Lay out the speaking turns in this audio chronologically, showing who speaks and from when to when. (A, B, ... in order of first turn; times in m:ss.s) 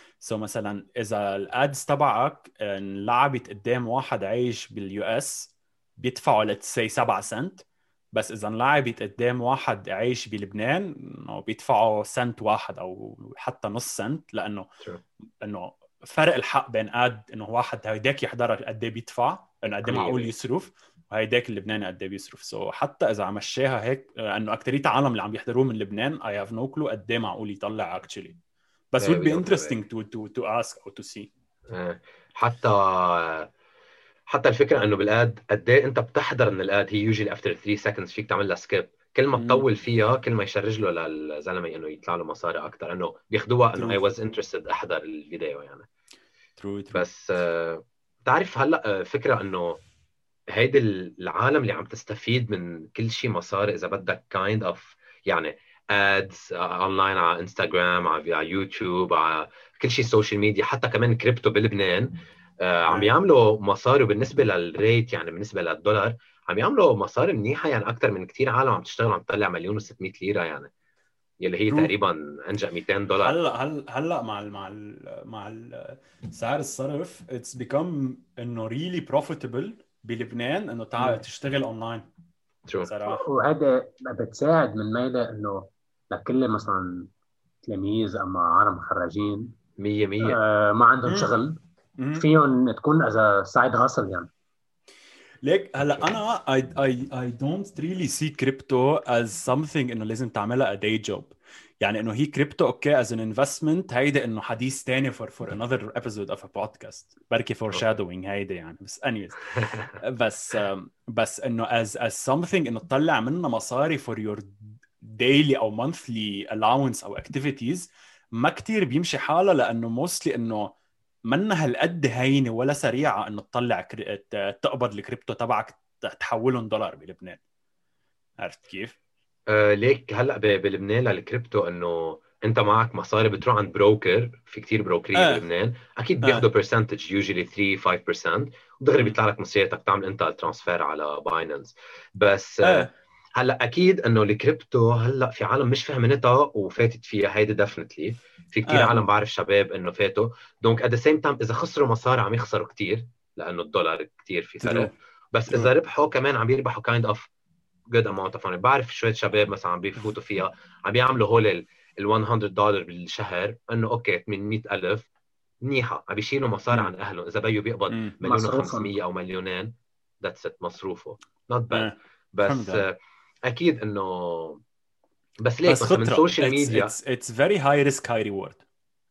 0:00.2-0:14.7 A
0:15.4-0:28.4 A
0:19.8-0:20.3 B
0:28.9-0:31.3 A
0:29.0-0:29.8 B
0:31.7-0:33.5 B
0:34.3-0:45.8 B
0:39.3-0:39.6 A
0:43.7-0:44.0 A
0:46.6-0:47.0 A
0:46.9-0:49.8 B
0:50.5-1:10.7 B
1:02.9-1:03.2 A
1:11.4-1:13.4 B
1:13.2-1:22.1 A
1:22.7-1:23.2 B
1:22.8-1:23.2 A
1:23.2-1:27.1 C
1:27.6-1:29.6 C
1:29.8-1:30.4 B
1:30.3-1:31.6 C
1:32.0-1:32.2 A
1:32.1-1:34.3 C
1:35.4-2:00.8 A
1:35.8-1:36.1 B
2:01.3-2:07.4 A
2:08.4-2:09.0 A
2:09.5-2:37.3 B
2:15.2-2:15.4 A
2:22.6-2:22.9 A
2:28.7-2:29.0 A
2:34.6-2:34.9 A
2:37.9-2:45.1 B
2:45.6-2:49.7 B
2:47.9-2:48.2 A
2:48.2-2:49.0 C
2:50.2-2:54.6 B
2:51.7-2:52.9 A
2:55.4-2:57.0 B
2:55.6-2:58.6 A